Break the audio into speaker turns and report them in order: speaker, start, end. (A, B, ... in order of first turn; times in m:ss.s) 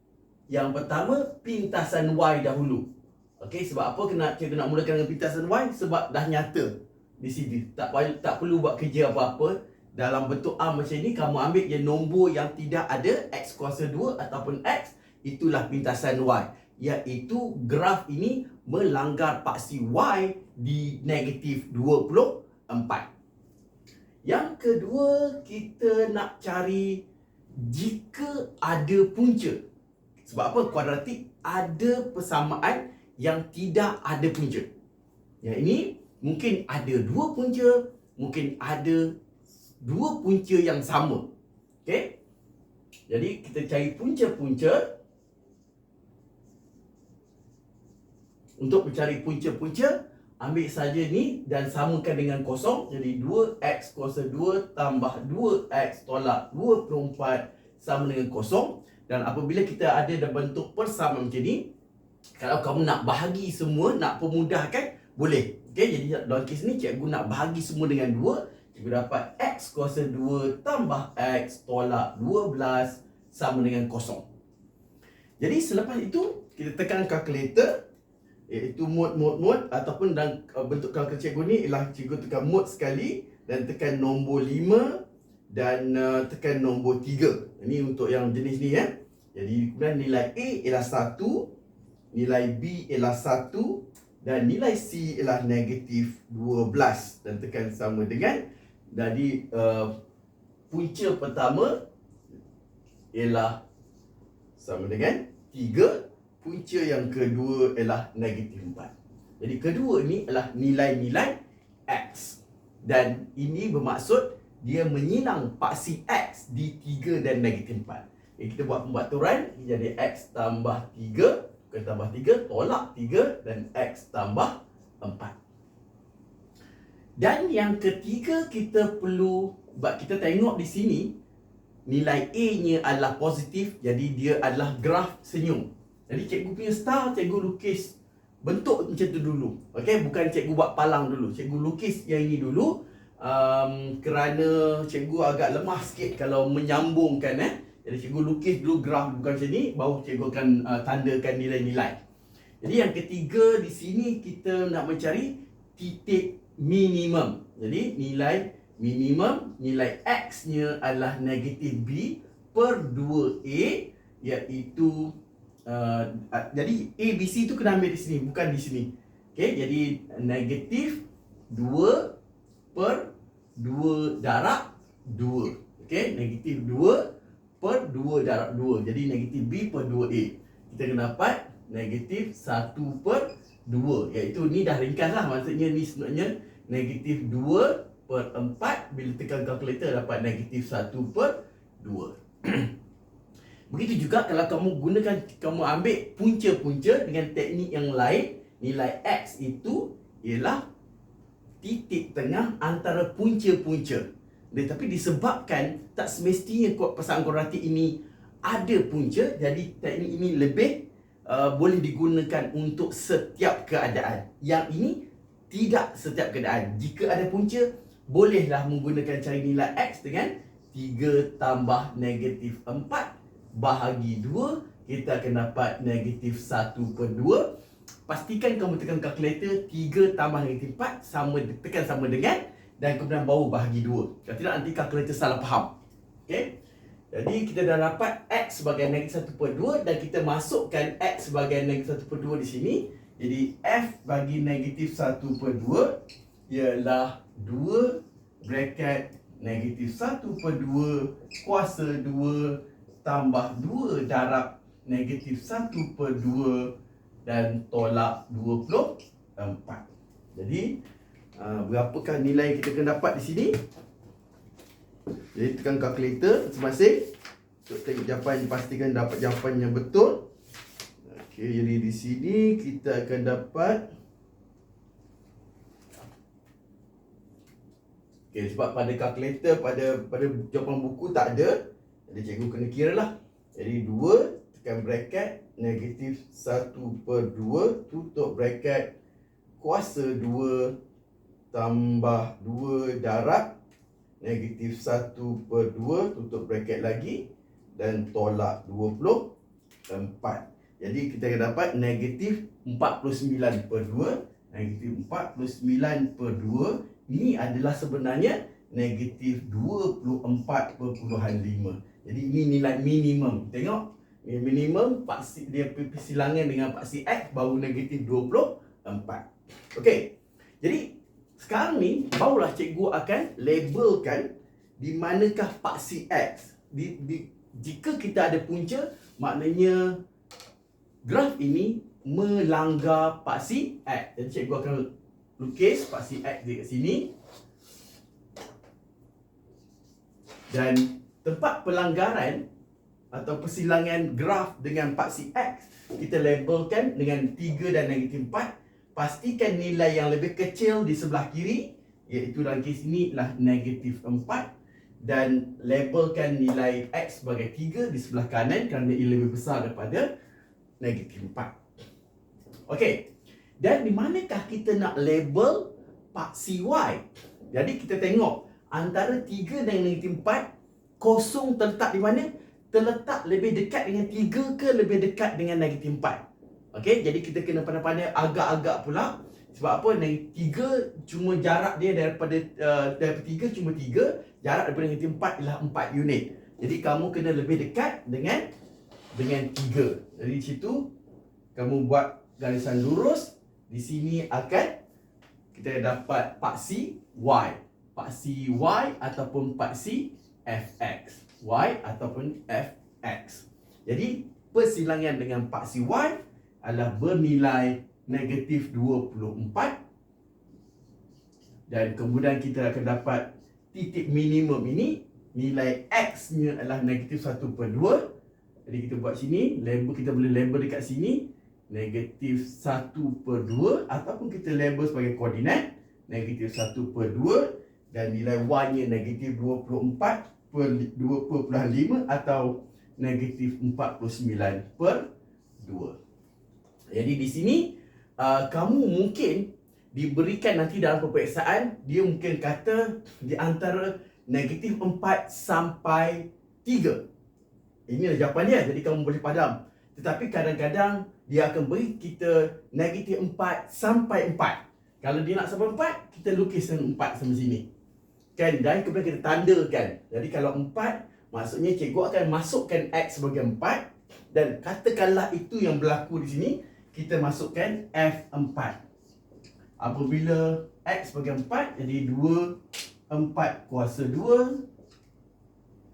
0:00.5-0:02.9 A
0:03.4-0:23.1 A
0:24.2-0:27.0 A
0:27.6-0:29.6 A
0:30.2-0:34.7 A
0:35.4-0:39.2 A
0:39.8-0:41.3 A
0:41.8-0:42.2 A
0:43.1-0:44.9 A
0:48.6-1:01.7 A
1:02.4-1:14.3 A
1:15.4-1:17.8 A
1:18.5-1:31.5 A
1:32.1-1:39.9 A
1:40.7-1:41.8 A
1:43.1-1:43.6 A
1:44.6-1:51.4 A
1:51.9-2:05.4 A
2:07.2-2:11.2 A
2:11.9-2:32.0 A
2:32.6-2:52.2 A
2:52.7-3:12.7 A
3:13.7-3:20.6 A
3:21.6-3:47.5 A
3:48.1-3:55.7 A
3:56.3-3:56.6 A
3:57.1-4:06.0 A
4:06.5-4:16.7 A
4:17.2-4:20.8 A
4:21.4-4:23.6 A
4:25.3-4:27.1 A
4:27.7-4:30.3 A
4:31.1-4:33.9 A
4:38.3-4:48.9 A
4:49.6-4:50.8 A
4:51.5-4:53.6 A
4:54.2-4:59.3 A
4:59.9-5:30.0 A
5:31.0-5:34.9 A
5:35.4-5:37.1 A
5:40.5-5:42.5 A
5:43.1-5:54.5 A
5:55.0-6:00.1 A
6:00.8-6:01.5 A
6:02.7-6:03.1 A
6:03.6-6:10.5 A
6:11.0-6:16.2 A
6:16.7-6:28.5 A
6:29.1-6:30.9 A
6:31.6-6:34.8 A
6:35.5-6:49.8 A
6:51.7-6:58.1 A
6:58.7-7:16.0 A
7:16.9-7:27.0 A
7:27.9-7:37.6 A
7:38.4-7:48.8 A
7:49.8-7:52.6 A
7:53.1-7:54.6 A